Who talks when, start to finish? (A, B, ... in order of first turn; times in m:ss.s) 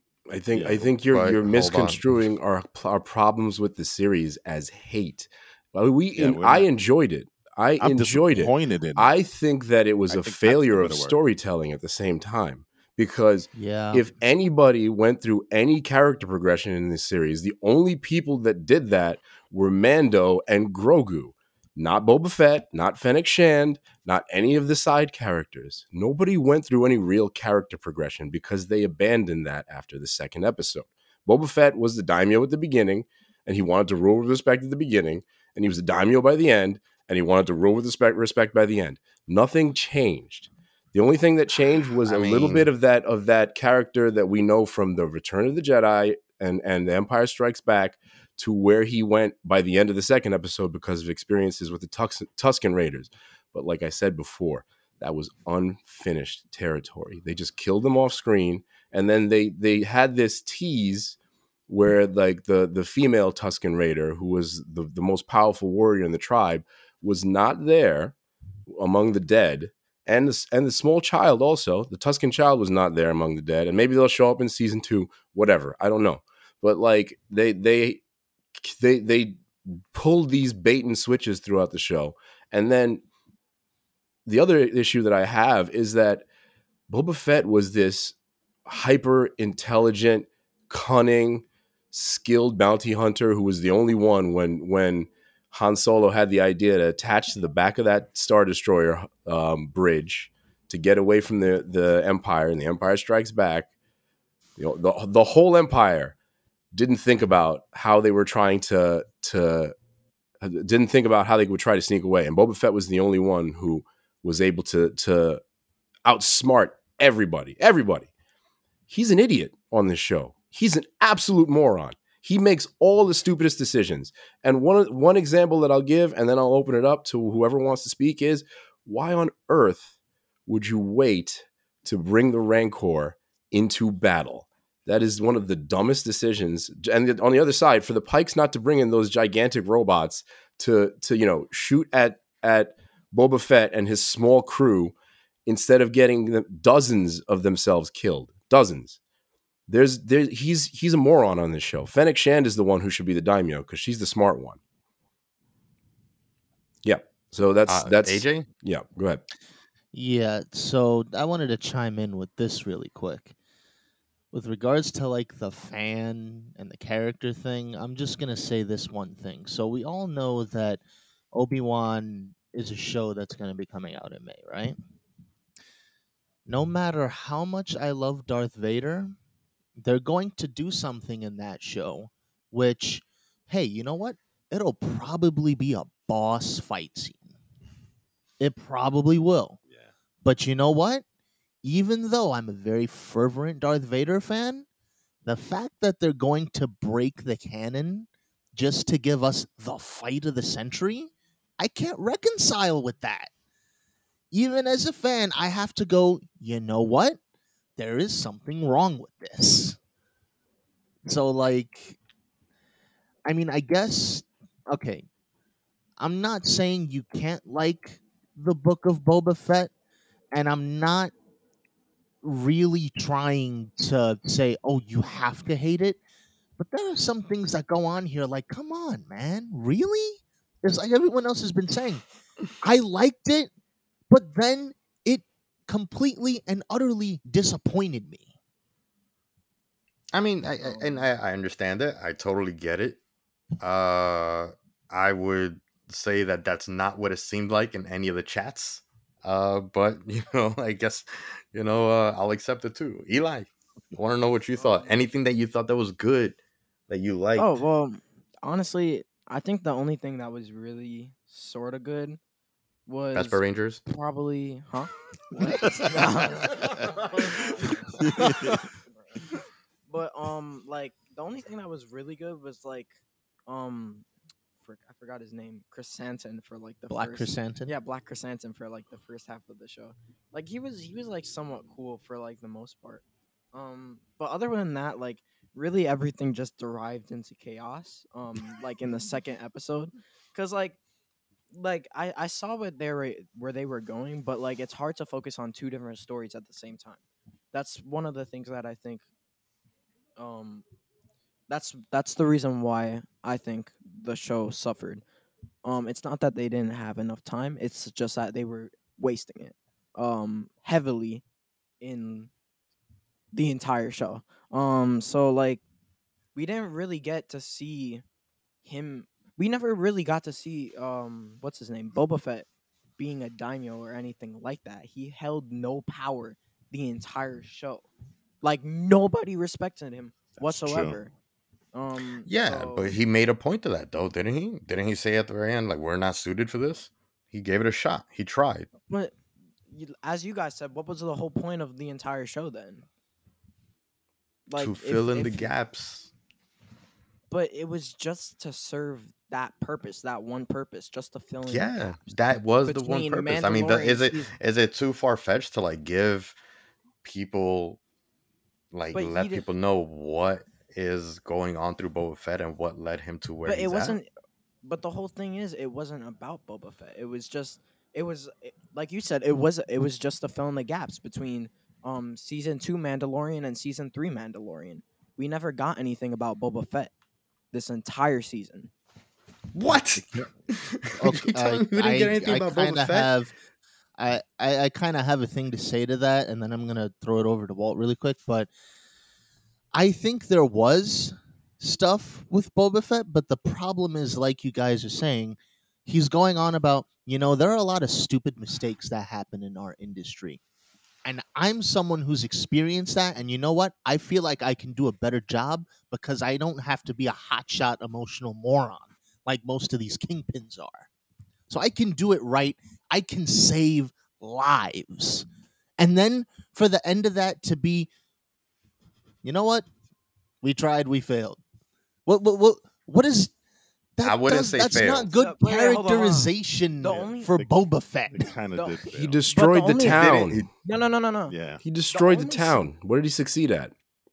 0:00.3-1:01.2 A
0:00.5-0:00.9 B
0:01.1-0:02.0 C
0:06.2-0:06.6 B
0:07.8-0:09.1 B
0:10.1-0:11.2 B
0:13.5-0:14.0 D
0:42.0-0:42.7 C
1:01.7-1:08.1 A
1:08.7-1:18.0 A
1:18.6-1:23.0 A
1:24.2-1:26.2 A
1:26.9-1:28.1 A
1:28.6-1:43.7 A
1:44.6-1:46.1 A
1:46.7-1:49.7 A
1:50.4-1:55.4 A
1:56.0-1:58.1 A
1:58.9-2:09.9 A
2:10.5-2:24.9 A
2:25.4-2:29.0 A
2:29.7-2:34.6 A
2:36.8-2:39.2 A
2:37.7-2:38.5 C
2:39.9-2:43.3 D
2:44.3-2:50.8 D
2:51.3-2:54.8 D
2:56.5-2:59.2 D
2:59.8-3:07.4 D
3:08.4-3:09.6 D
3:10.2-3:11.0 D
3:11.6-3:14.6 D
3:15.2-3:23.3 D
3:24.3-3:27.2 D
3:27.8-3:29.8 D
3:31.0-3:32.0 D
3:33.2-3:35.0 D
3:36.0-3:39.7 D
3:40.3-3:41.1 D
3:42.2-3:46.0 D
3:46.6-3:52.0 D
3:52.6-3:53.5 D
3:54.1-3:58.3 D
4:00.1-4:03.0 C
4:00.6-4:01.0 E
4:03.6-4:16.4 C
4:14.6-4:15.0 E
4:16.9-4:17.6 C
4:17.4-4:22.2 E
4:22.9-4:29.3 E
4:23.1-4:23.8 C
4:25.7-4:26.7 B
4:28.1-4:28.6 B
4:29.9-4:32.9 E
4:33.5-4:34.0 E
4:34.6-4:50.8 E
4:36.9-4:37.7 D
4:51.5-4:57.0 E
4:57.5-4:59.0 E
5:00.2-5:00.6 E
5:01.5-5:05.0 E
5:05.6-5:11.2 E
5:11.8-5:12.3 E
5:13.3-5:15.6 E
5:16.3-5:18.0 E
5:18.6-5:22.5 E
5:23.0-5:27.9 E
5:28.4-5:31.1 E
5:30.3-5:31.0 B
5:31.7-5:32.9 E
5:32.2-5:38.7 C
5:39.7-5:42.8 E
5:44.5-5:45.5 E
5:44.6-5:46.1 C
5:47.3-5:52.0 E
5:51.5-5:56.4 C
5:52.6-5:54.3 E
5:57.0-5:57.8 C
5:58.7-6:04.0 C
5:58.9-5:59.4 E
6:03.4-6:04.1 E
6:04.6-6:16.9 E
6:17.5-6:18.7 E
6:19.5-6:23.1 C
6:20.9-6:23.3 D
6:24.0-6:28.5 D
6:29.7-6:40.4 D
6:41.0-6:50.9 D
6:51.5-6:55.3 D
6:55.8-6:57.9 D
6:59.2-6:59.7 D
7:00.4-7:01.4 D
7:02.0-7:03.3 D
7:04.0-7:08.3 D
7:04.0-7:05.1 C
7:04.8-7:07.4 E
7:06.8-7:07.6 B
7:08.1-7:09.2 B
7:08.5-7:11.3 E
7:08.9-7:10.5 A
7:09.9-7:10.5 C
7:11.3-7:11.6 B
7:11.6-7:13.7 A
7:11.9-7:12.6 E